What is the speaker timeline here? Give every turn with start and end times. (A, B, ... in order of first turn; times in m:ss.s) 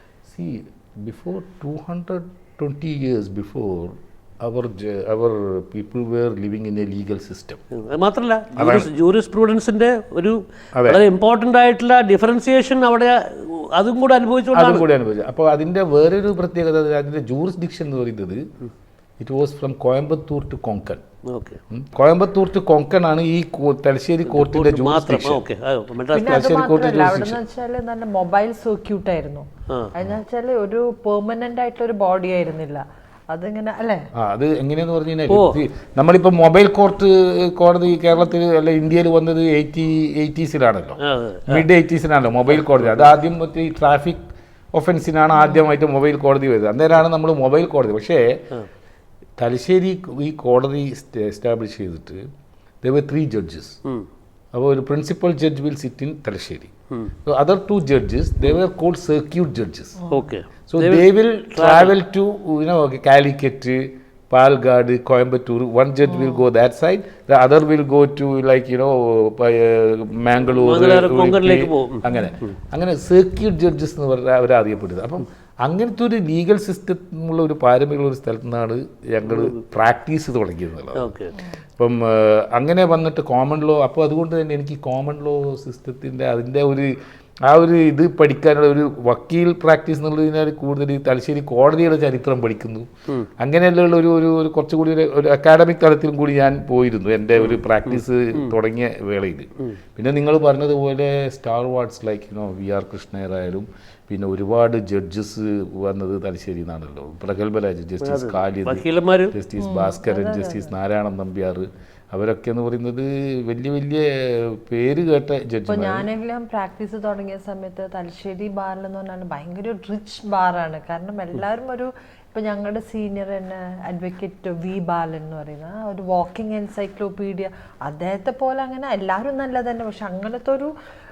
0:00.3-0:07.6 A
0:07.8-0:14.8 B
0:08.6-0:08.9 A
0:10.7-0:11.0 A
0:14.5-0:18.4 A
0:19.2-0:21.0 A
0:21.3-0:21.6 B
0:21.7-0:25.4 A
0:24.3-0:26.4 B
0:26.1-0:27.4 A
0:26.1-0:34.0 C
0:34.1-0:48.4 A
0:35.3-0:35.6 B
0:41.0-0:41.7 B
0:42.6-0:43.1 B
0:49.4-0:52.3 A
0:52.8-0:53.8 A
0:54.5-0:56.7 A
0:57.2-1:00.0 A
1:00.0-1:00.3 C
1:00.1-1:02.0 B
1:00.7-1:21.1 A
1:06.1-1:06.4 C
1:10.6-1:12.5 B
1:12.0-1:12.3 C
1:19.2-1:19.6 B
1:21.0-1:21.4 B
1:21.8-1:32.9 A
1:33.4-1:56.1 A
1:37.4-1:38.6 B
1:48.0-1:49.3 B
1:49.6-1:50.7 C
1:55.7-2:10.7 C